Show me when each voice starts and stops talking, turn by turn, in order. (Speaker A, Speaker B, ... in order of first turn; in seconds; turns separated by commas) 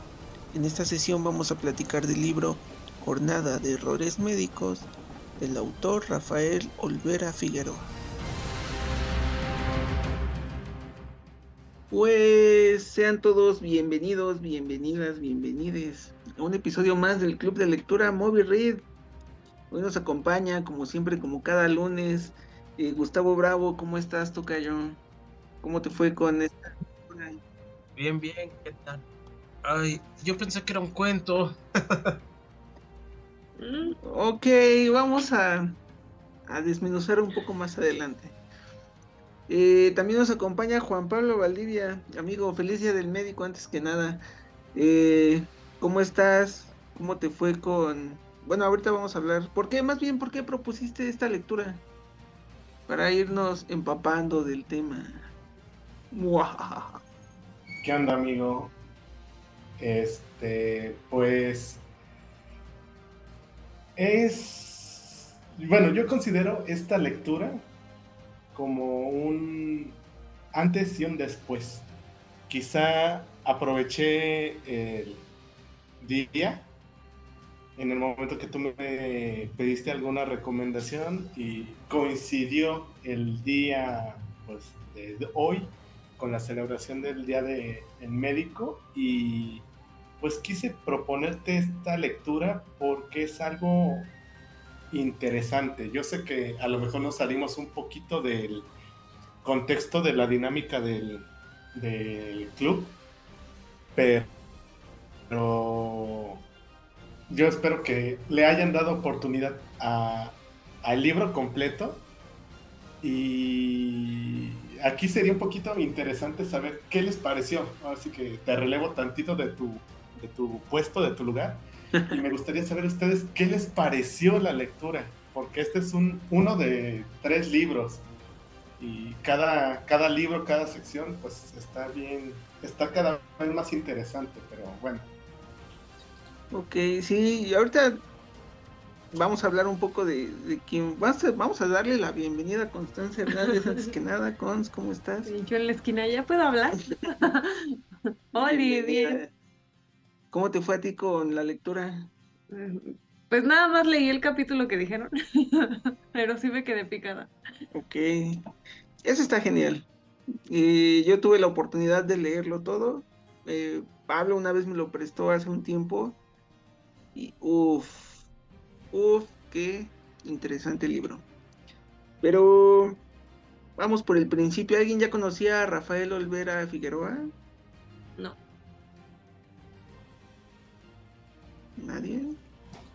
Speaker A: 0.5-7.9, Speaker A: 11.9-18.9, Speaker A: 19.7-25.0, Speaker A: 25.6-27.4, Speaker B: 28.0-29.0, Speaker B: 29.6-32.1, Speaker C: 33.6-34.0, Speaker A: 34.0-35.8, Speaker A: 36.5-38.4, Speaker A: 39.5-44.2, Speaker A: 44.8-51.8, Speaker A: 52.9-55.3, Speaker A: 56.1-57.0, Speaker D: 57.8-58.7, Speaker D: 59.8-61.8, Speaker D: 64.0-67.7, Speaker D: 68.5-70.0, Speaker D: 70.5-71.9, Speaker D: 72.5-75.2, Speaker D: 76.0-76.7, Speaker D: 77.8-89.7, Speaker D: 90.2-94.1, Speaker D: 94.9-98.7, Speaker D: 99.4-103.0, Speaker D: 103.9-104.3, Speaker D: 105.3-106.4, Speaker D: 107.3-112.0, Speaker D: 113.0-128.1, Speaker D: 128.8-135.1, Speaker A: 136.5-138.0, Speaker A: 139.1-145.3, Speaker C: 145.2-147.8, Speaker C: 148.3-149.2, Speaker A: 148.3-149.3, Speaker A: 150.3-152.1, Speaker C: 152.5-157.3, Speaker A: 157.7-158.4, Speaker A: 159.0-159.9, Speaker A: 160.5-166.2, Speaker A: 167.1-168.2, Speaker A: 168.9-171.2, Speaker A: 172.2-173.0, Speaker A: 173.8-177.3, Speaker A: 181.8-182.3